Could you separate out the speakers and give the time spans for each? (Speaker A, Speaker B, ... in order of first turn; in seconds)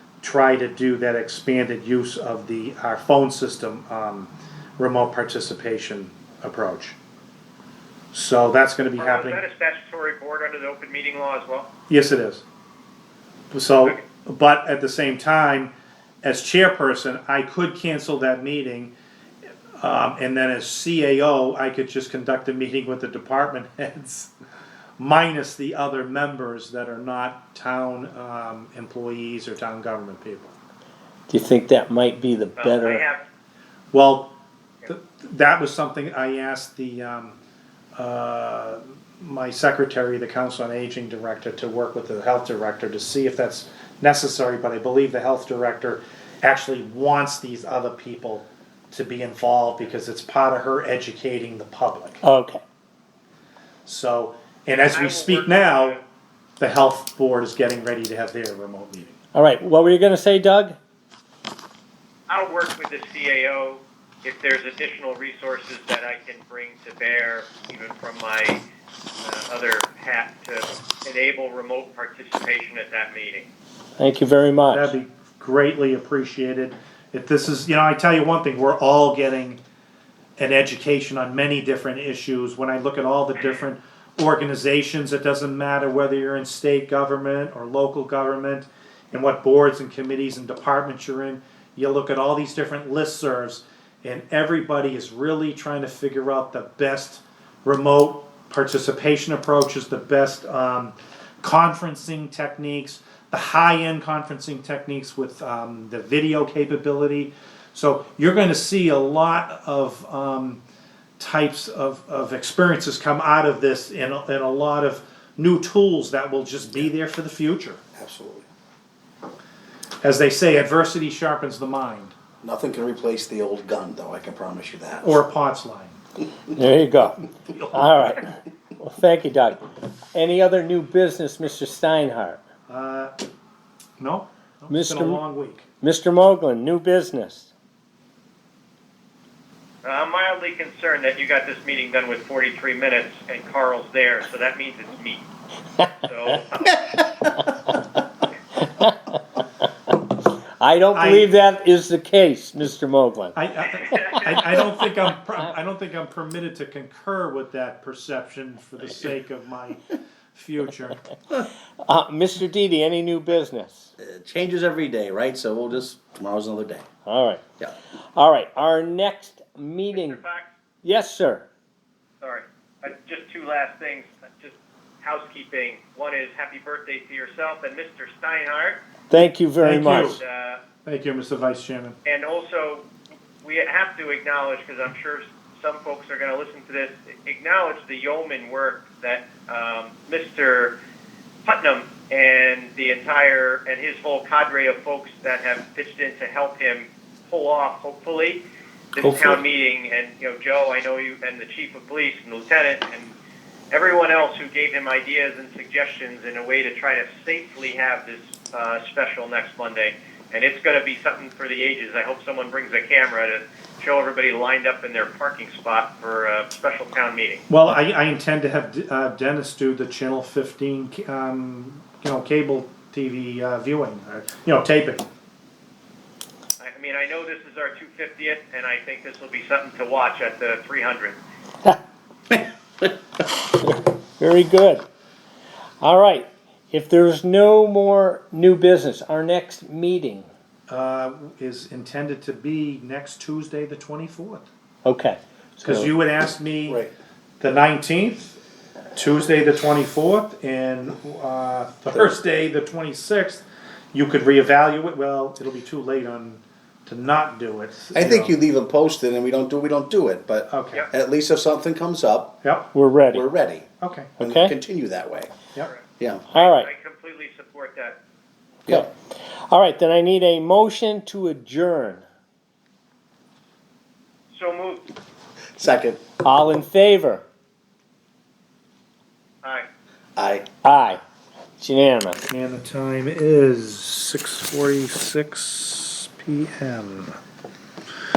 Speaker A: 0.2-7.0, 8.1-9.4, 11.9-12.4, 13.5-15.7, 16.2-18.9, 19.8-24.3, 25.0-30.6, 33.9-34.3, 34.9-37.4, 38.0-52.2, 53.9-56.0, 56.6-59.2, 74.7-79.6, 80.4-110.6, 111.2-117.8, 120.0-122.1, 125.0-126.0, 132.7-133.1, 134.0-135.7, 150.9-151.3, 153.3-161.0, 179.6-180.2, 180.8-181.9, 217.5-225.0, 240.7-244.5, 245.6-246.8, 247.4-248.4, 248.9-258.3, 260.5-260.8, 262.4-262.7, 263.8-264.1, 282.3-287.2
Speaker B: 9.0-11.7, 32.6-33.2, 54.9-56.0, 62.3-68.6, 69.2-73.5, 139.8-145.2, 146.0-146.8, 153.8-154.5, 169.9-170.5, 172.2-178.8, 180.2-180.6, 182.0-182.8, 183.4-190.7, 191.4-198.4, 198.9-203.1, 203.7-217.4, 226.6-231.2, 266.3-268.0, 274.3-274.9
Speaker C: 31.3-33.0, 52.2-52.6, 59.3-60.8, 74.0-74.9, 126.5-129.6, 130.1-132.4, 134.7-135.2, 135.8-137.5, 147.4-147.8, 148.6-149.0, 150.6-153.3, 161.8-163.9, 167.1-167.4, 168.2-170.2, 170.8-171.4, 179.1-180.2, 233.6-234.8, 235.8-240.3, 244.8-245.9, 262.7-263.2, 264.2-264.5, 266.3-266.7, 268.7-272.0, 276.2-277.2, 280.6-281.0, 281.6-282.2
Speaker D: 118.0-118.5, 122.4-125.2, 164.0-166.9, 199.0-199.4, 232.3-232.8, 257.9-262.4, 263.1-263.7, 264.2-265.3, 266.0-266.2, 275.6-276.0, 280.1-280.4